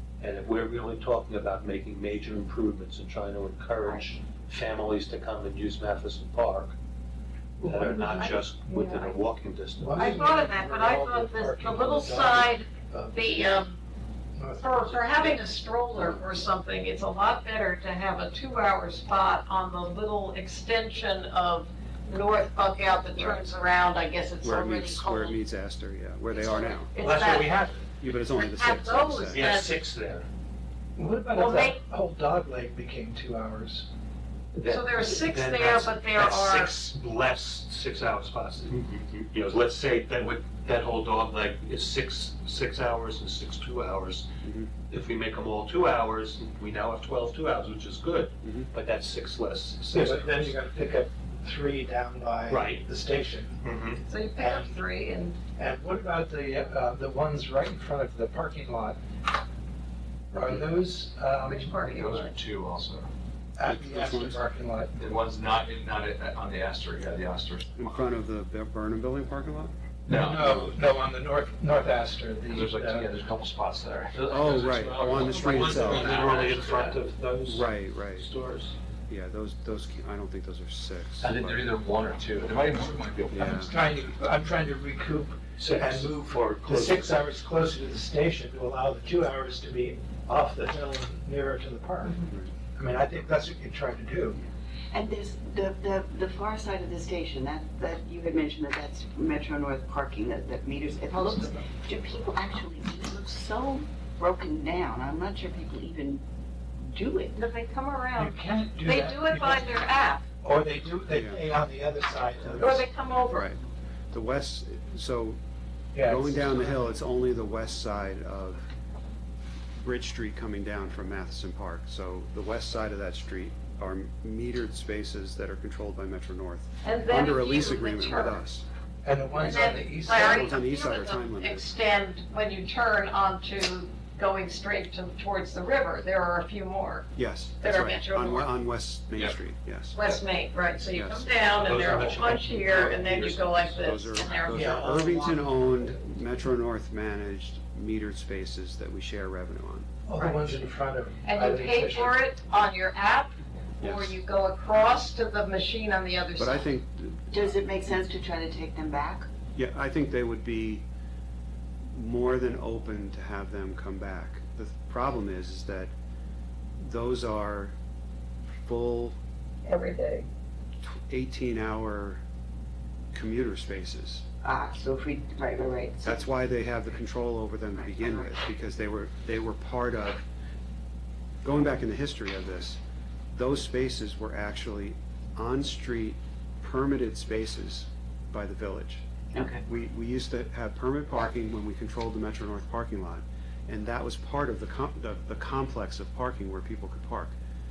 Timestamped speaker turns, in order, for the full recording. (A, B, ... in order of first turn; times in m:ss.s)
0:00.2-0:06.8 A
0:07.6-0:10.2 A
0:07.6-0:08.2 B
0:09.8-0:13.6 B
0:10.0-0:13.8 C
0:14.4-0:15.2 B
0:14.6-0:25.4 C
0:23.2-0:23.5 D
0:24.4-0:26.9 D
0:26.3-0:27.6 C
0:27.0-0:27.9 A
0:28.0-0:29.5 D
0:28.3-0:29.7 C
0:29.3-0:30.3 A
0:31.0-0:33.9 B
0:31.3-0:31.8 C
0:34.5-0:44.3 A
0:34.6-0:36.8 C
0:44.4-0:44.7 D
0:44.9-0:50.6 A
0:48.4-0:48.7 D
0:49.9-0:53.6 B
0:52.5-0:52.8 A
0:53.6-0:54.0 A
0:54.1-0:55.4 C
0:54.4-0:54.8 B
0:55.6-0:59.0 B
1:00.3-1:01.9 B
1:01.4-1:02.3 C
1:01.8-1:03.1 E
1:03.6-1:05.0 B
1:03.6-1:04.4 D
1:05.0-1:08.0 E
1:07.8-1:09.7 D
1:10.1-1:10.6 E
1:10.1-1:13.1 B
1:10.4-1:10.7 D
1:12.5-1:17.0 E
1:14.3-1:16.2 D
1:15.4-1:18.8 A
1:17.5-1:18.3 D
1:19.1-1:21.7 D
1:21.2-1:23.7 E
1:23.3-1:23.7 D
1:23.5-1:32.2 B
1:25.6-1:27.2 A
1:32.7-1:34.4 B
1:34.9-1:46.2 F
1:46.8-1:47.4 F
1:47.4-1:50.2 C
1:48.2-1:49.7 B
1:50.4-1:52.8 B
1:51.1-1:51.4 D
1:52.6-1:53.5 C
1:53.3-1:53.6 D
1:54.1-1:55.4 D
1:56.0-1:56.7 B
1:56.0-1:58.7 D
1:59.8-2:08.7 D
2:06.8-2:08.4 C
2:09.0-2:10.6 B
2:09.4-2:17.1 C
2:10.1-2:11.7 D
2:17.2-2:20.2 D
2:17.6-2:18.5 C
2:20.0-2:25.0 C
2:20.9-2:21.4 D
2:21.5-2:23.8 A
2:23.8-2:29.9 D
2:24.5-2:25.9 B
2:30.1-2:32.2 B
2:30.2-2:30.4 C
2:31.2-2:36.7 C
2:33.8-2:34.2 D
2:36.4-2:37.5 D
2:37.3-2:39.3 F
2:39.6-2:40.8 D
2:41.9-2:45.9 D
2:46.8-2:47.7 D
2:48.6-2:49.2 D
2:49.7-2:50.3 C
2:50.9-2:52.2 D
2:53.1-2:54.3 D
2:54.4-2:56.2 F
2:56.0-3:00.2 D
2:57.8-2:58.3 F
3:01.4-3:02.8 D
3:03.3-3:09.1 D
3:09.3-3:09.6 F
3:09.6-3:17.3 D